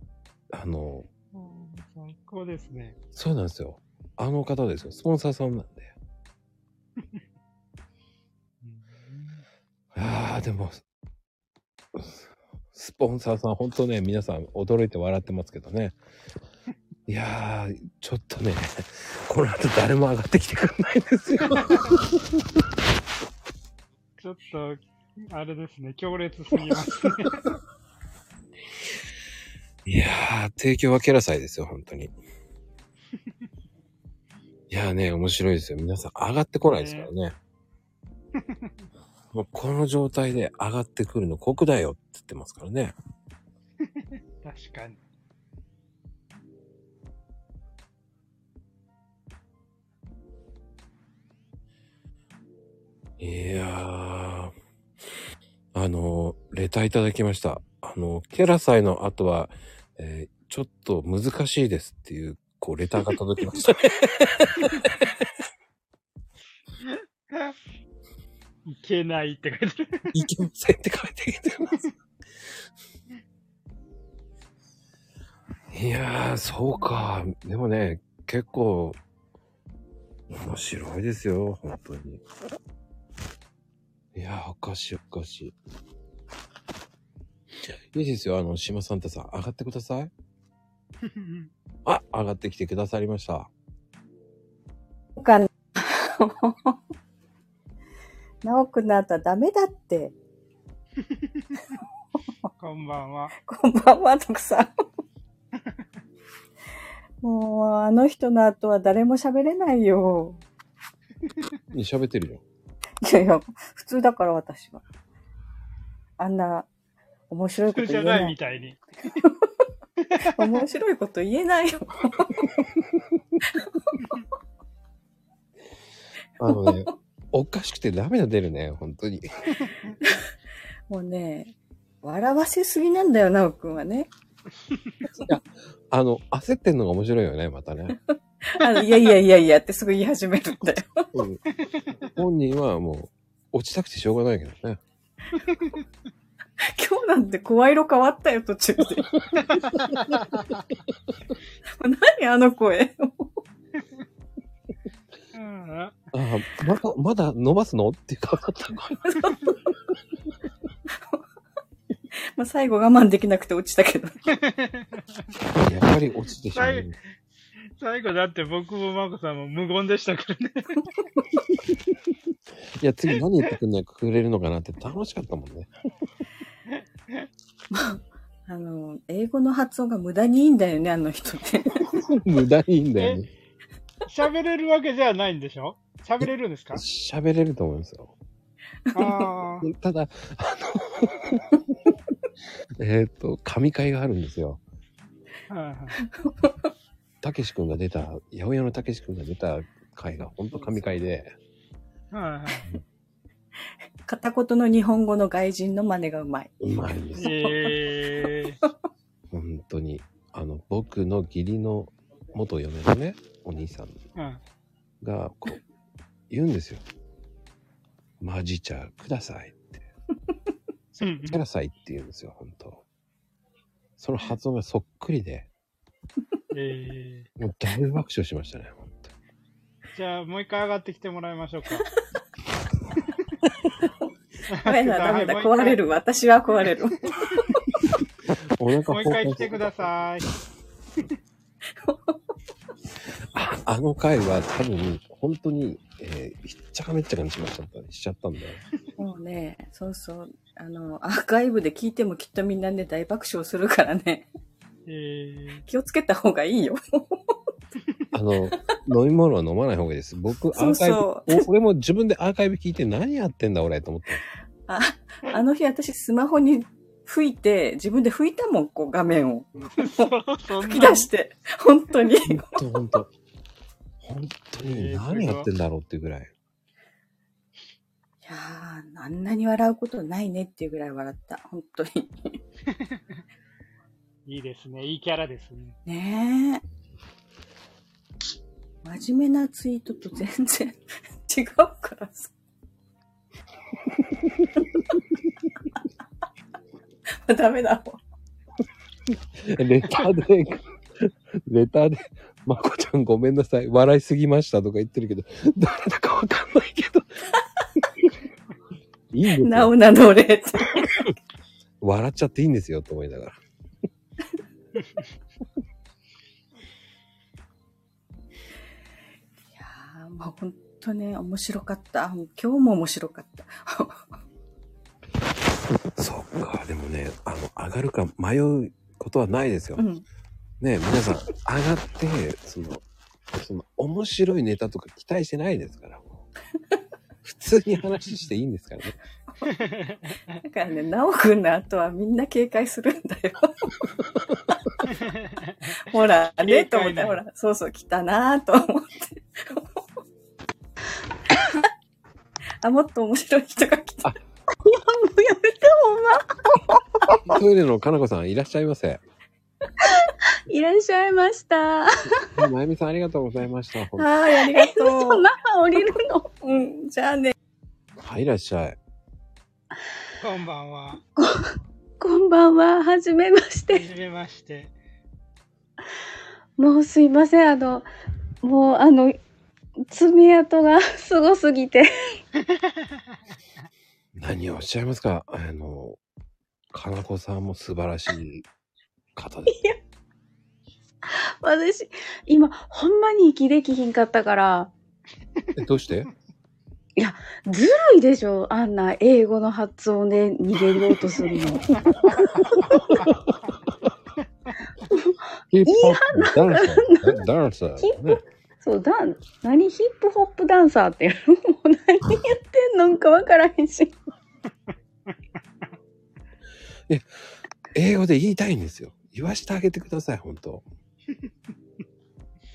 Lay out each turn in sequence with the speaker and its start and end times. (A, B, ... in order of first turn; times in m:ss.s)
0:00.5-0:01.1 A
0:01.3-0:03.0 B
0:03.1-0:05.9 A
0:08.6-0:09.4 B
0:09.9-0:10.8 A
0:12.7-0:16.0 A
0:17.1-0:22.0 A
0:24.2-0:24.8 B
0:25.3-0:27.4 B
0:29.9-0:32.1 A
0:34.7-0:37.4 A
0:36.7-0:37.1 B
0:38.4-0:38.7 B
0:39.3-0:42.9 A
0:43.9-0:45.0 B
0:53.2-0:54.5 A
0:55.7-1:04.9 A
1:08.7-1:10.1 B
1:10.1-1:11.8 A
1:15.7-1:19.0 A
1:20.3-1:22.2 A
1:24.2-1:25.6 A
1:27.7-1:30.1 A
1:31.0-1:31.5 B
1:31.8-1:33.5 A
1:35.2-1:36.8 C
1:38.4-1:40.2 C
1:41.1-1:41.6 B
1:42.6-1:43.3 B
1:43.5-1:44.7 C
1:47.2-1:50.4 C
1:51.7-1:52.4 A
1:53.0-1:54.8 C
1:56.2-1:56.7 C
1:57.3-1:58.4 C
1:57.7-1:58.8 B
1:59.2-1:59.5 C
2:00.0-2:00.6 B
2:00.3-2:02.5 C
2:06.4-2:09.2 A
2:06.5-2:06.9 C
2:10.9-2:14.1 C
2:15.2-2:18.0 A
2:18.5-2:21.1 C
2:21.1-2:21.4 A
2:21.6-2:21.9 B
2:22.1-2:24.8 A
2:25.4-2:25.8 B
2:26.8-2:29.2 C
2:29.5-2:30.4 B
2:31.8-2:33.4 C
2:35.3-2:36.0 B
2:36.1-2:39.1 A
2:39.1-2:39.6 C
2:42.4-2:44.2 C
2:44.3-2:45.2 B
2:45.6-2:47.0 A
2:46.5-2:46.9 B
2:47.8-2:50.9 B
2:52.8-2:55.7 A
2:56.7-2:57.3 B
2:58.5-3:01.8 C
3:02.0-3:03.3 A
3:04.1-3:06.8 B
3:06.7-3:08.1 A
3:08.9-3:09.7 B
3:09.6-3:11.4 A
3:12.8-3:14.6 A
3:15.5-3:16.0 B
3:17.2-3:21.3 A
3:22.1-3:22.7 B
3:24.1-3:26.6 C
3:26.6-3:27.4 A
3:27.1-3:27.7 C
3:27.2-3:28.6 B
3:29.3-3:34.0 A
3:34.2-3:34.4 B
3:35.0-3:35.6 A
3:36.3-3:36.8 A
3:38.2-3:39.8 A
3:40.9-3:42.8 A
3:41.0-3:41.4 B
3:44.0-3:45.5 A
3:46.5-3:47.3 B
3:47.4-3:49.1 A
3:50.0-3:51.9 B
3:54.5-3:55.8 B
3:54.6-3:57.0 C
3:58.6-3:59.9 A
3:58.9-4:00.3 B
4:01.8-4:02.2 C
4:03.3-4:08.6 A
4:09.0-4:14.3 C
4:14.9-4:15.6 B
4:15.7-4:17.4 C
4:18.1-4:24.2 A
4:20.5-4:21.4 C
4:24.7-4:32.5 C
4:29.7-4:31.1 B
4:32.2-4:33.1 A
4:34.0-4:36.3 A
4:34.6-4:35.5 B
4:38.2-4:42.4 C
4:42.7-4:43.0 B
4:44.3-4:45.8 B
4:45.9-4:46.6 C
4:48.8-4:52.3 C
4:57.3-4:58.0 C
4:59.4-5:07.1 A
5:09.1-5:09.7 A
5:09.4-5:10.9 C
5:11.8-5:13.4 A
5:19.5-5:24.1 C
5:26.0-5:29.8 A
5:29.8-5:30.0 C
5:30.6-5:36.2 A
5:37.2-5:39.0 A
5:39.5-5:40.4 B
5:40.5-5:43.7 C
5:44.9-5:45.8 B
5:45.9-5:49.8 C
5:46.4-5:47.2 B
5:52.6-5:54.1 C
5:54.6-5:56.4 D
5:57.2-5:59.0 A
6:00.5-6:02.3 D
6:02.3-6:04.1 A
6:04.0-6:05.3 C
6:04.3-6:06.3 D
6:06.4-6:07.3 C
6:08.0-6:08.8 A
6:10.2-6:11.0 B
6:11.2-6:11.5 D
6:12.0-6:13.9 D
6:13.7-6:14.7 B
6:16.6-6:17.9 D
6:18.4-6:19.2 D
6:19.9-6:21.9 D
6:24.2-6:26.0 A
6:26.7-6:28.4 A
6:29.2-6:29.6 A
6:29.5-6:29.8 D
6:31.4-6:34.7 D
6:35.6-6:36.1 A
6:37.0-6:42.6 D
6:44.9-6:47.2 D
6:45.5-6:48.2 A
6:47.8-6:53.9 D
6:57.7-7:00.6 A